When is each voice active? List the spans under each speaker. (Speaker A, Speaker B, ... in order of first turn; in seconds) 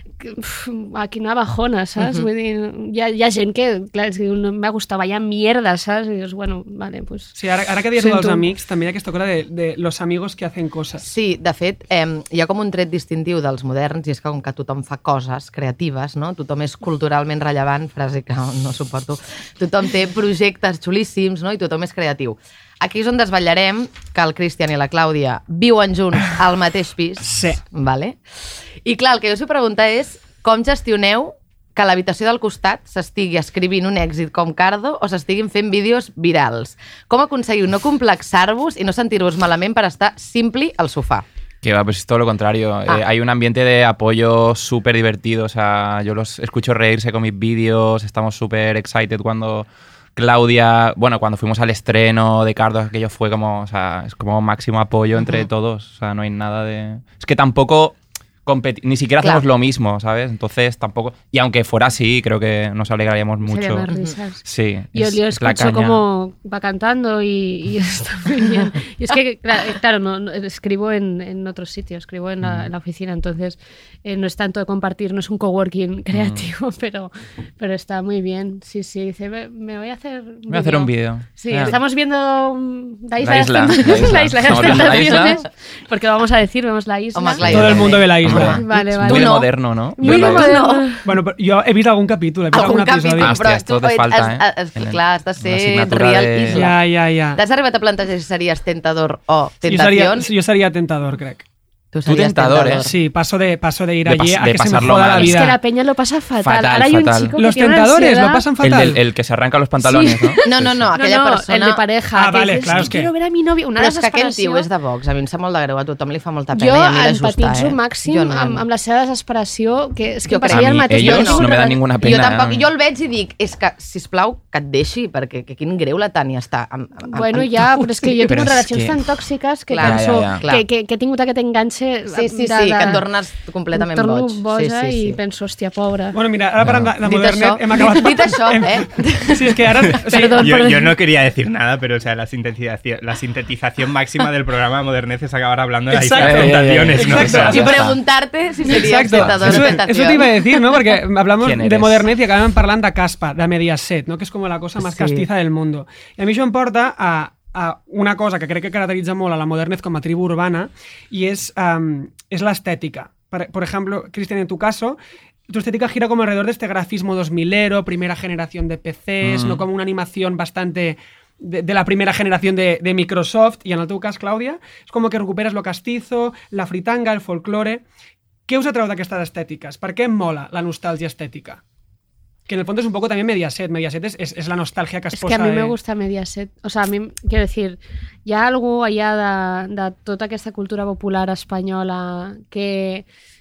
Speaker A: 0.2-7.4, 7.9-8.5, 63.4-64.4, 64.9-87.5, 88.4-91.0, 105.1-108.5, 109.8-114.7, 116.5-122.2, 127.1-133.1, 133.7-136.2, 140.0-140.9, 185.1-193.1
Speaker B: 2.0-2.3, 11.0-28.2, 28.9-41.2, 55.2-55.4, 84.8-85.2, 87.2-91.0, 92.5-96.8, 97.4-100.3, 101.9-103.0, 110.4-111.8, 113.8-118.6, 120.3-128.6, 129.7-130.7, 132.1-135.2, 137.0-139.9, 147.5-150.4
Speaker C: 7.3-11.0, 27.2-27.6, 87.5-88.6, 91.0-93.4, 96.5-97.4, 99.7-101.4, 102.8-105.6, 107.3-109.0, 112.1-113.1, 136.1-140.5, 145.9-147.9, 148.7-165.0, 165.5-177.8, 178.5-181.6, 182.5-185.8
Speaker D: 41.6-63.9, 64.4-66.0, 72.4-72.7, 76.1-76.5, 80.5-81.8, 83.2-85.4, 87.4-90.5, 93.2-96.7, 102.1-102.9, 104.0-105.5, 106.4-107.3, 108.6-110.9, 120.5-122.7, 128.3-129.0, 129.8-130.4, 136.6-136.9, 146.2-148.0, 149.1-149.8, 151.4-152.1, 169.2-169.6
Speaker E: 140.2-147.7